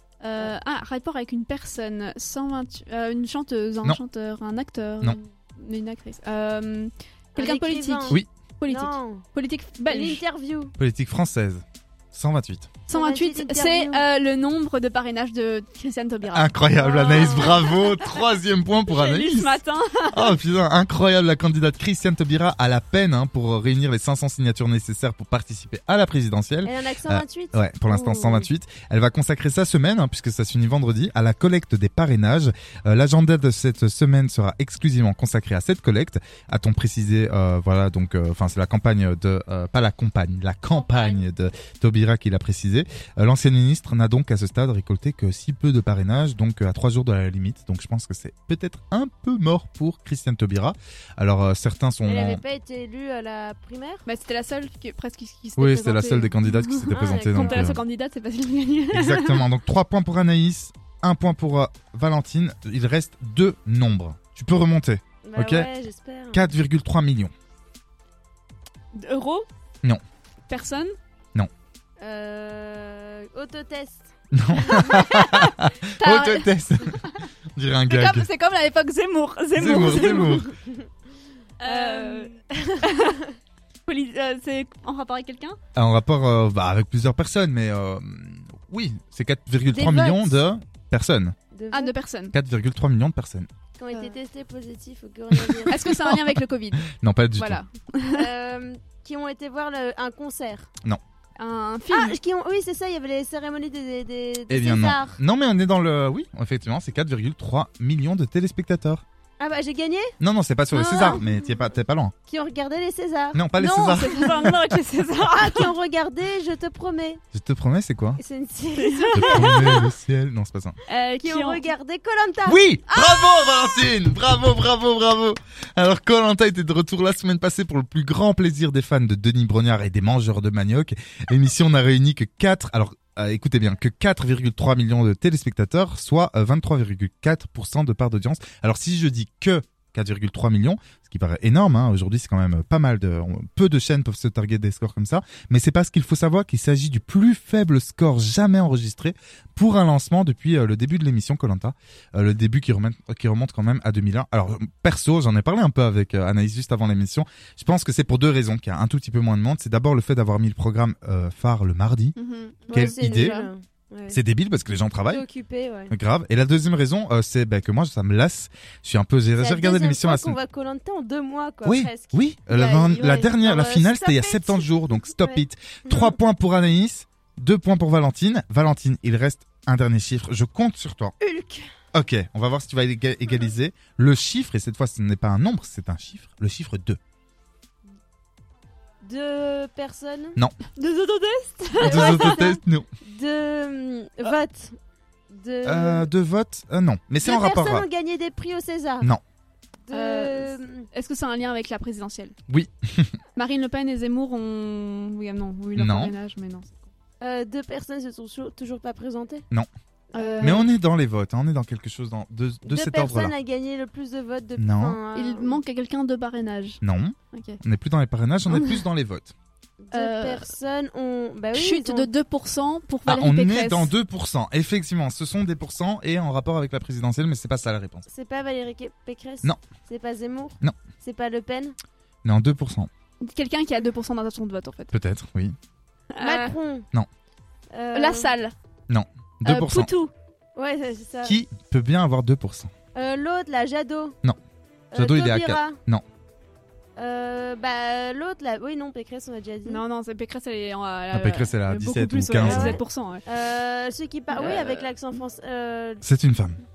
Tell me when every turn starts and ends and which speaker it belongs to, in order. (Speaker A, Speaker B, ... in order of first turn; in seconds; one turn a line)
Speaker A: 0.2-10.2
Speaker B: 7.3-9.3
Speaker B: 9.9-10.8
Speaker C: 10.8-12.7
Speaker A: 12.9-18.1
Speaker B: 12.9-14.0
Speaker C: 16.3-19.6
Speaker B: 16.8-17.7
Speaker A: 18.9-20.4
Speaker C: 20.1-52.4
Speaker B: 26.6-28.5
Speaker B: 40.8-41.3
Speaker B: 52.1-54.0
Speaker A: 54.1-59.4
Speaker C: 55.6-57.8
Speaker B: 56.9-57.7
Speaker C: 58.9-65.7
Speaker B: 65.2-66.5
Speaker C: 66.3-67.3
Speaker A: 69.0-69.5
Speaker A: 70.5-70.9
Speaker B: 72.0-74.1
Speaker C: 74.3-77.0
Speaker A: 74.7-77.2
Speaker B: 74.7-75.1
Speaker C: 77.5-78.3
Speaker A: 77.9-80.5
Speaker C: 79.5-80.5
Speaker B: 79.9-80.8
Speaker A: 81.6-83.2
Speaker B: 81.6-82.9
Speaker A: 83.9-85.6
Speaker C: 85.8-91.4
Speaker B: 89.7-90.4
Speaker B: 91.5-91.9
Speaker A: 91.7-92.3
Speaker C: 92.3-93.5
Speaker B: 93.8-95.9
Speaker C: 95.5-97.6
Speaker A: 95.7-98.2
Speaker B: 98.1-100.7
Speaker A: 101.4-102.2
Speaker B: 101.9-105.2
Speaker C: 104.5-109.0
Speaker B: 109.4-110.1
Speaker C: 110.2-112.1
Speaker A: 110.8-111.2
Speaker B: 110.8-111.2
Speaker B: 112.3-114.5
Speaker C: 113.3-114.5
Speaker A: 113.6-115.7
Speaker B: 115.2-117.2
Speaker C: 117.3-118.2
Speaker B: 118.2-119.6
Speaker A: 118.8-119.9
Speaker C: 119.1-120.8
Speaker A: 120.9-121.6
Speaker B: 121.2-123.8
Speaker C: 122.5-162.2
Speaker A: 162.2-163.4
Speaker B: 162.7-164.2
Speaker C: 162.7-163.5
Speaker C: 164.1-165.2
Speaker B: 165.1-165.9
Speaker C: 165.9-170.4
Speaker B: 169.4-172.3
Speaker C: 171.7-181.2
Speaker A: 172.5-173.4
Speaker B: 173.4-176.1
Speaker B: 181.2-181.7
Speaker C: 181.9-187.0
Speaker B: 189.0-190.4
Speaker A: 190.8-192.4
Speaker C: 191.8-192.9
Speaker B: 191.8-194.8
Speaker B: 195.3-196.1
Speaker C: 195.6-197.9
Speaker B: 197.2-199.1
Speaker B: 199.9-200.9
Speaker A: 199.9-202.3
Speaker C: 202.5-203.2
Speaker A: 203.4-206.8
Speaker C: 205.8-206.1
Speaker B: 207.2-209.4
Speaker B: 210.1-210.7
Speaker A: 210.2-210.7
Speaker C: 210.4-213.3
Speaker B: 212.7-215.6
Speaker C: 214.6-215.0
Speaker A: 215.1-216.8
Speaker C: 216.8-219.3
Speaker A: 217.3-217.6
Speaker A: 218.5-218.8
Speaker B: 219.8-222.1
Speaker A: 219.9-220.5
Speaker A: 221.5-223.9
Speaker C: 223.1-228.1
Speaker B: 228.1-231.8
Speaker C: 232.2-232.9
Speaker A: 233.2-234.9
Speaker C: 234.9-235.6
Speaker A: 236.2-236.5
Speaker B: 236.2-236.9
Speaker B: 237.7-238.4
Speaker A: 237.9-238.5
Speaker C: 238.9-239.9
Speaker A: 239.4-240.1
Speaker B: 240.6-241.4
Speaker C: 241.2-242.7
Speaker B: 242.9-244.2
Speaker B: 244.9-245.8
Speaker C: 244.9-246.0
Speaker B: 247.0-249.8
Speaker A: 249.7-253.2
Speaker C: 251.1-252.8
Speaker B: 252.4-256.0
Speaker A: 254.3-254.9
Speaker C: 256.0-256.6